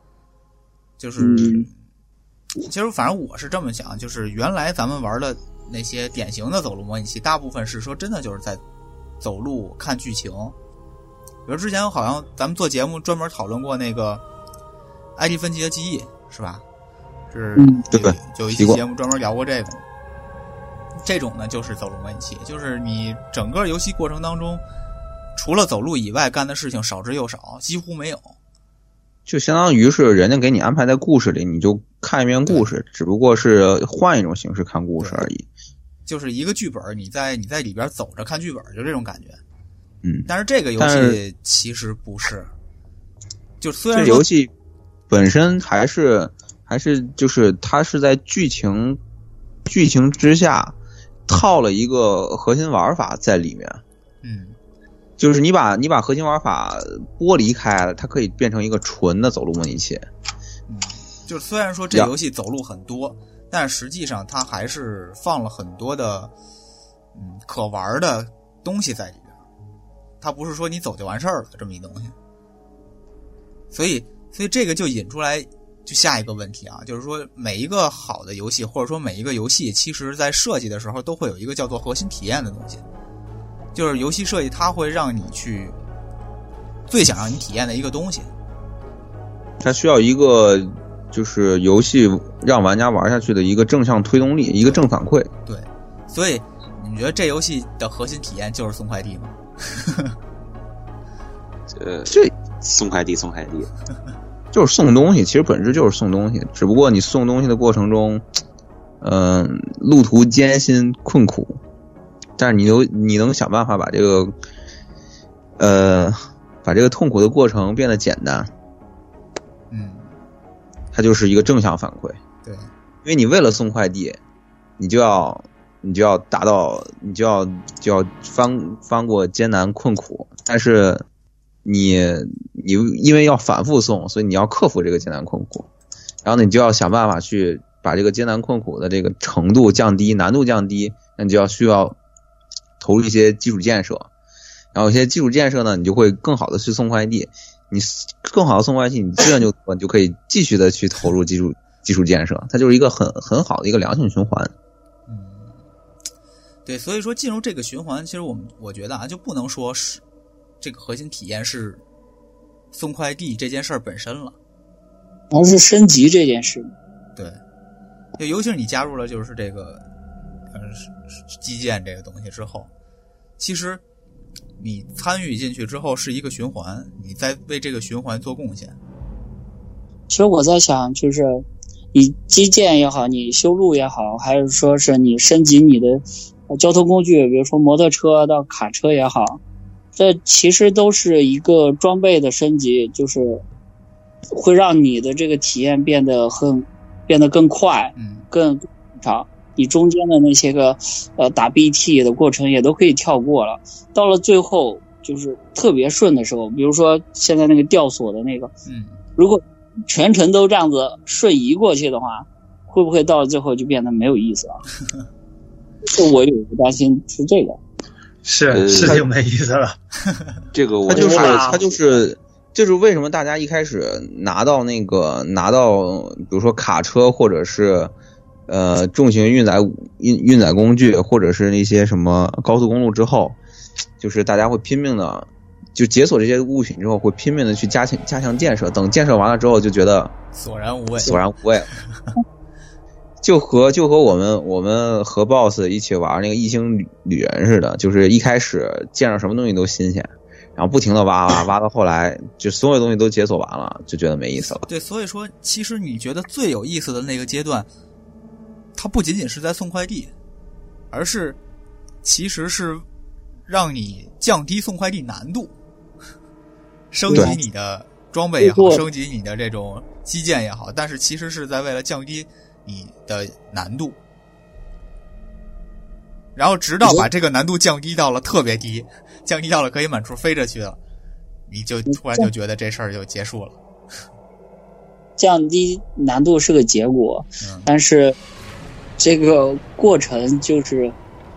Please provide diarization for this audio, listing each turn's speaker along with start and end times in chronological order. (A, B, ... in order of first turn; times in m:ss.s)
0:01.0-0:01.7 A
0:01.2-0:01.7 B
0:02.7-0:08.6 A
0:09.2-0:10.5 A
0:11.4-0:14.2 A
0:15.2-0:16.6 A
0:17.3-0:19.8 A
0:17.6-0:17.8 B
0:17.9-0:18.8 C
0:21.0-0:24.6 A
0:25.4-0:28.3 A
0:29.3-0:35.4 C
0:32.4-0:32.7 A
0:35.0-0:35.2 A
0:36.0-0:39.4 A
0:40.0-0:41.2 C
0:40.3-0:42.5 A
0:43.6-0:44.2 A
0:43.9-0:44.5 C
0:45.1-0:49.0 C
0:49.7-0:50.7 C
0:51.3-0:53.8 C
0:54.2-0:54.6 A
0:55.2-1:00.0 C
1:00.7-1:06.3 A
1:07.1-1:09.4 A
1:10.2-1:12.1 A
1:13.7-1:22.8 A
1:23.7-1:25.8 A
1:26.9-1:28.3 A
1:29.6-1:35.3 C
1:35.4-1:40.1 A
1:41.7-1:43.7 D
1:42.1-1:42.3 C
1:44.5-1:48.2 C
1:49.0-1:51.6 C
1:52.4-1:54.3 C
1:55.6-1:58.5 C
1:59.7-2:00.1 A
2:00.9-2:02.2 C
2:02.4-2:02.7 A
2:03.0-2:04.2 C
2:04.8-2:11.0 C
2:11.6-2:15.7 C
2:16.2-2:22.0 C
2:22.8-2:24.1 C
2:24.7-2:34.5 C
2:35.1-2:35.5 A
2:36.6-2:40.0 A
2:40.6-2:41.8 A
2:42.7-2:44.3 A
2:45.3-2:46.7 B
2:48.2-2:49.8 A
2:50.5-2:52.7 A
2:53.4-2:53.8 A
2:54.6-2:58.8 A
3:00.1-3:09.4 B
3:10.0-3:13.4 B
3:14.3-3:28.5 B
3:18.0-3:18.3 A
3:28.7-3:29.0 A
3:29.2-3:34.6 B
3:35.8-3:37.6 B
3:38.2-3:39.8 E
3:38.5-3:39.0 D
3:40.5-3:41.7 D
3:40.9-3:47.9 C
3:40.9-3:41.6 E
3:48.5-3:53.4 C
3:54.0-4:00.1 C
4:00.3-4:01.2 A
4:01.0-4:01.7 C
4:03.2-4:14.6 C
4:14.7-4:17.7 A
4:18.7-4:20.1 A
4:20.9-4:21.4 A
4:22.0-4:22.8 A
4:23.5-4:25.5 A
4:26.9-4:34.0 A
4:27.1-4:27.4 B
4:28.4-4:28.8 B
4:36.4-4:40.8 A
4:41.5-4:43.6 A
4:45.2-4:48.1 B
4:47.4-4:47.7 A
4:49.0-4:50.9 B